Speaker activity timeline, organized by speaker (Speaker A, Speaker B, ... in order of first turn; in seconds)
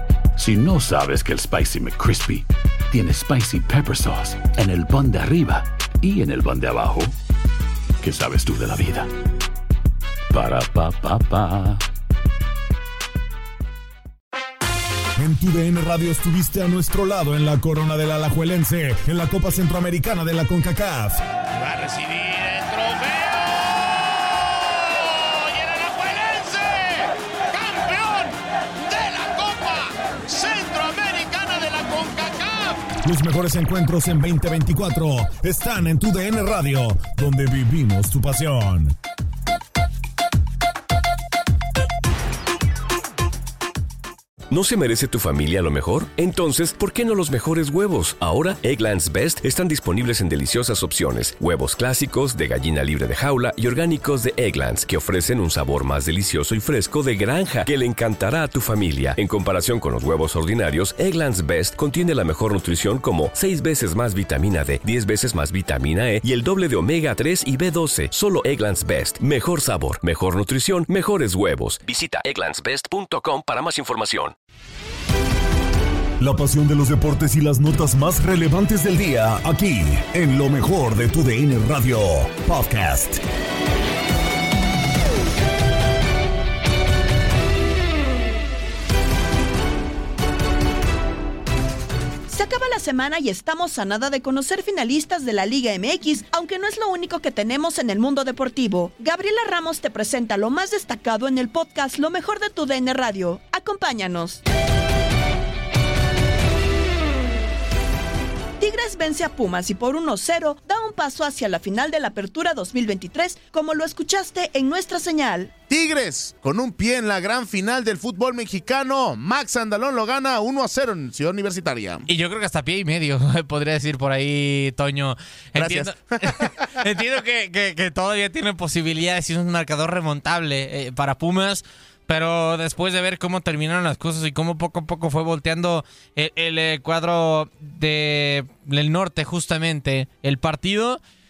Speaker A: 0.3-7.1, 8.0-9.1, 10.3-11.8
Speaker B: 15.2-21.2, 33.0-38.9, 76.2-83.2
Speaker C: 21.6-32.8
Speaker D: 44.5-74.3
Speaker E: 92.3-104.4, 108.6-115.5
Speaker F: 115.7-122.0, 125.5-126.5
Speaker G: 122.1-141.0